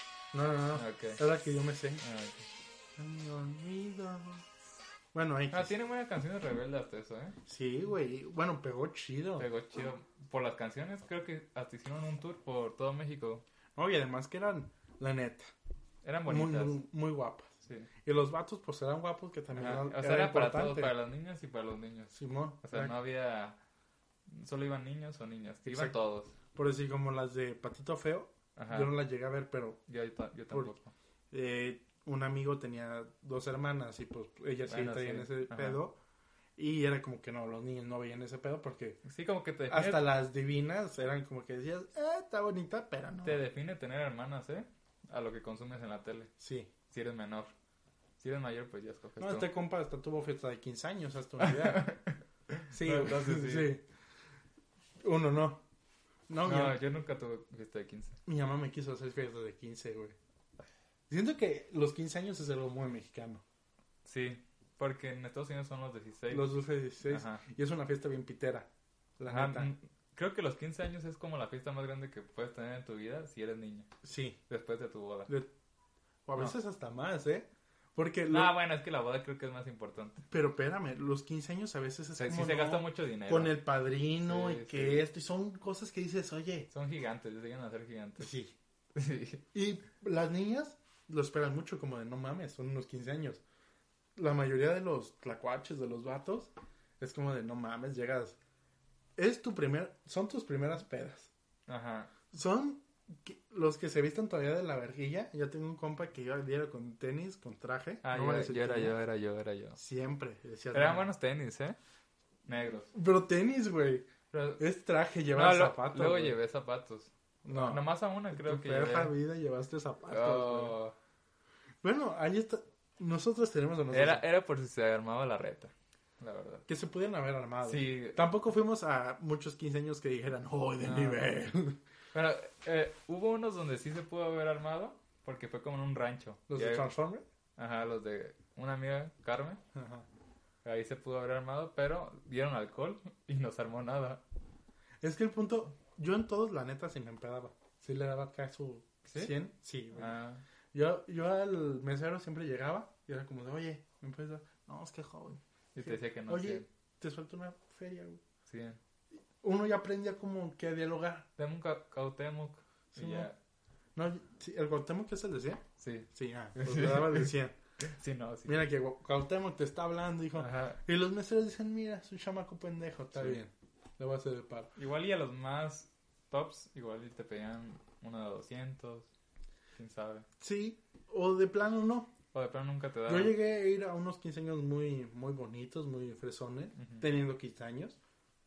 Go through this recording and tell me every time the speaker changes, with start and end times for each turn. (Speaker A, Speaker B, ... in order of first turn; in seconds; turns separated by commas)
Speaker A: 0.3-2.0, Speaker B: 0.7-1.2, Speaker B: 2.0-2.5, Speaker A: 3.0-4.4, Speaker A: 5.1-5.7, Speaker B: 5.5-7.4, Speaker A: 7.5-9.5, Speaker B: 9.4-13.4, Speaker A: 13.8-15.5, Speaker B: 16.0-16.8, Speaker A: 16.3-17.5, Speaker B: 17.6-17.9, Speaker A: 18.0-20.9, Speaker B: 19.5-23.6, Speaker A: 22.1-22.9, Speaker B: 24.3-26.4, Speaker A: 25.7-25.9, Speaker A: 26.5-29.8, Speaker B: 28.6-28.9, Speaker B: 29.9-30.9, Speaker A: 31.3-36.0, Speaker B: 34.6-35.8, Speaker A: 36.6-39.0, Speaker B: 39.0-40.0, Speaker A: 39.7-43.4, Speaker B: 43.2-46.3, Speaker A: 46.4-46.7, Speaker B: 46.9-47.5, Speaker B: 48.2-49.5, Speaker A: 49.2-51.9, Speaker B: 51.4-53.7, Speaker A: 52.7-53.8, Speaker A: 55.0-55.6, Speaker A: 56.3-56.8, Speaker B: 56.4-58.2, Speaker A: 58.2-60.1, Speaker A: 61.1-63.4, Speaker B: 64.0-66.5, Speaker A: 66.3-69.7, Speaker B: 67.0-67.4, Speaker B: 69.3-73.9, Speaker A: 74.0-74.4, Speaker B: 74.5-75.3, Speaker A: 76.3-78.5, Speaker B: 78.3-80.2, Speaker A: 80.3-86.7, Speaker B: 82.2-83.6, Speaker B: 84.2-85.0, Speaker B: 86.7-88.3, Speaker A: 88.2-88.5, Speaker B: 88.9-89.4, Speaker A: 89.5-93.4, Speaker A: 94.2-98.4, Speaker A: 99.2-101.3, Speaker B: 101.7-102.1, Speaker A: 102.3-109.0, Speaker B: 108.0-109.8, Speaker A: 109.8-111.1, Speaker B: 110.7-111.8, Speaker B: 112.5-112.9, Speaker A: 112.9-114.1, Speaker B: 114.3-114.6, Speaker A: 114.6-116.4, Speaker B: 115.3-119.1, Speaker A: 117.4-120.8, Speaker B: 120.1-120.9, Speaker A: 121.8-124.2, Speaker B: 123.9-126.7, Speaker A: 126.7-131.8, Speaker B: 127.6-128.2, Speaker B: 130.8-131.2, Speaker B: 132.1-136.9, Speaker A: 136.5-137.2, Speaker B: 137.6-139.6, Speaker A: 139.7-140.1, Speaker B: 140.6-144.2, Speaker A: 145.0-150.2, Speaker B: 149.1-149.3, Speaker B: 149.9-150.4, Speaker A: 150.7-158.2, Speaker B: 155.7-156.7, Speaker B: 158.5-158.8, Speaker A: 159.4-161.3, Speaker B: 161.4-163.3, Speaker A: 162.9-163.3, Speaker A: 163.9-167.6, Speaker B: 165.8-168.7, Speaker A: 168.4-174.7, Speaker B: 170.3-170.8, Speaker B: 174.8-179.1, Speaker B: 179.8-180.3, Speaker A: 180.4-182.1, Speaker B: 182.3-183.3, Speaker A: 183.1-188.0, Speaker B: 186.8-187.1